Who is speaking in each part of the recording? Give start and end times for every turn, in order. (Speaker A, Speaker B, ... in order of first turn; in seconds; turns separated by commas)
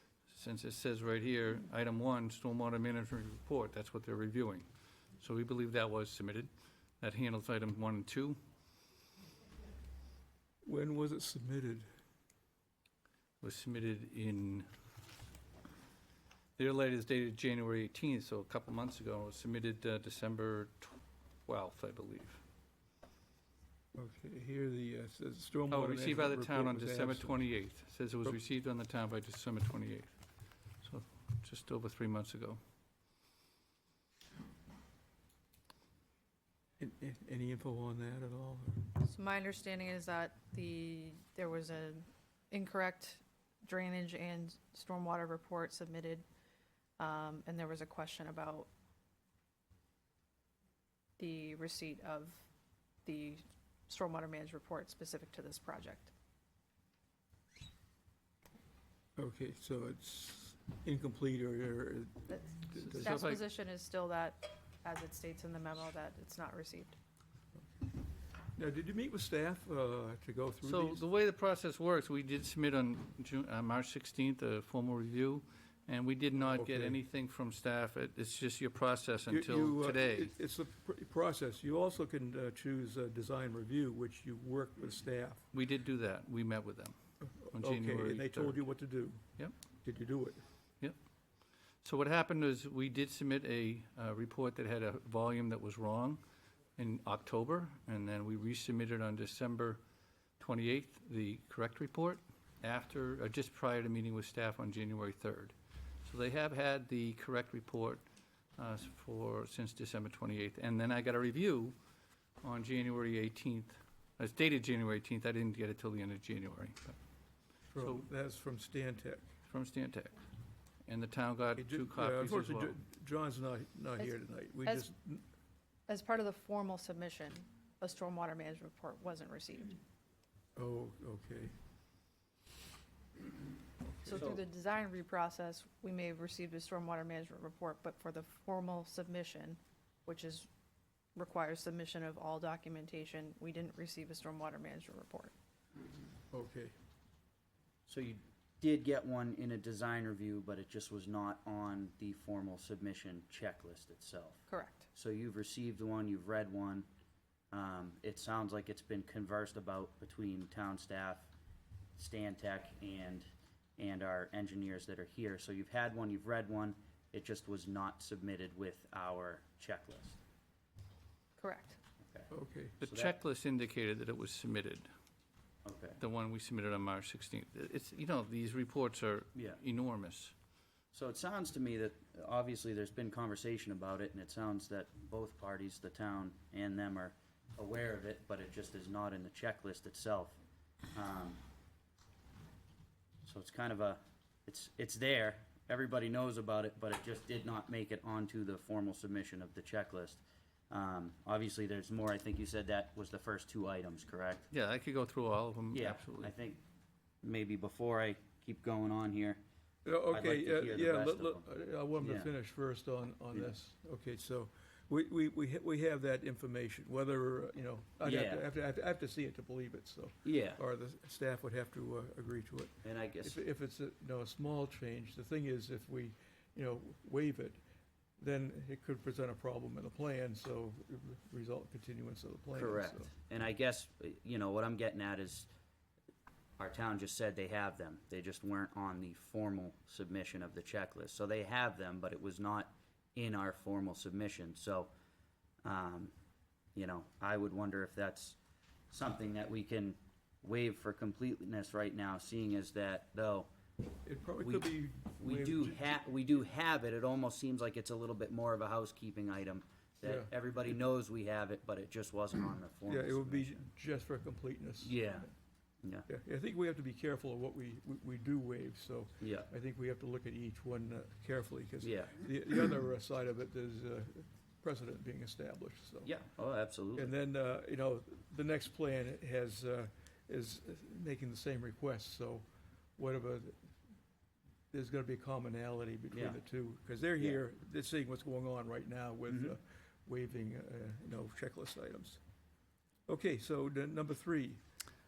Speaker A: 0.3-4.7, Speaker A: 5.2-8.4, Speaker B: 10.6-11.9, Speaker A: 13.4-14.7, Speaker A: 16.6-22.4, Speaker B: 23.9-27.4, Speaker A: 25.7-30.1, Speaker A: 30.8-32.6, Speaker B: 36.8-38.9, Speaker C: 39.0-46.2, Speaker C: 47.0-48.7, Speaker C: 51.2-52.5, Speaker C: 53.0-56.1, Speaker B: 59.2-63.1, Speaker C: 62.3-67.0, Speaker A: 62.8-63.4, Speaker B: 68.6-71.0, Speaker A: 70.7-80.3, Speaker B: 76.4-77.0, Speaker B: 79.3-85.5, Speaker A: 85.5-87.0, Speaker B: 87.2-89.2, Speaker A: 87.5-88.6, Speaker B: 89.8-90.4, Speaker A: 91.8-96.2, Speaker A: 96.8-99.8, Speaker A: 100.4-108.0, Speaker A: 108.6-111.8, Speaker A: 112.4-117.0, Speaker B: 117.7-119.3, Speaker A: 117.8-118.1, Speaker A: 119.5-120.2, Speaker A: 120.9-122.8, Speaker B: 121.6-125.2, Speaker C: 124.0-124.9, Speaker C: 125.9-129.8, Speaker B: 130.6-131.6, Speaker C: 134.0-140.5, Speaker C: 141.2-145.3, Speaker B: 146.3-146.8, Speaker D: 147.9-156.9, Speaker C: 154.5-154.9, Speaker D: 157.5-161.3, Speaker D: 162.0-170.2, Speaker C: 171.4-171.8, Speaker B: 172.3-172.8, Speaker A: 172.8-174.9, Speaker D: 172.8-173.2, Speaker D: 175.7-176.0, Speaker A: 176.0-180.3, Speaker D: 179.3-179.6, Speaker D: 180.9-190.4, Speaker D: 190.9-191.4, Speaker D: 193.2-204.5, Speaker A: 204.5-206.3, Speaker D: 205.7-206.6, Speaker D: 207.2-209.4, Speaker B: 209.8-227.6, Speaker D: 210.1-211.4, Speaker D: 212.0-212.3, Speaker D: 218.0-218.4, Speaker D: 220.2-220.6, Speaker D: 222.8-223.4, Speaker B: 228.2-233.1, Speaker D: 232.5-235.5, Speaker D: 236.6-244.9, Speaker D: 245.6-246.1, Speaker D: 246.8-248.4, Speaker D: 248.9-253.5, Speaker B: 254.0-256.0, Speaker D: 254.4-263.7, Speaker B: 260.0-260.3, Speaker B: 262.9-265.3, Speaker D: 264.8-265.3, Speaker B: 266.1-276.1, Speaker D: 269.2-269.5, Speaker D: 271.8-272.2, Speaker D: 276.1-277.1, Speaker B: 276.9-282.4, Speaker B: 283.0-283.7, Speaker B: 284.7-292.2, Speaker D: 286.1-286.4, Speaker D: 289.3-289.6, Speaker B: 293.1-294.6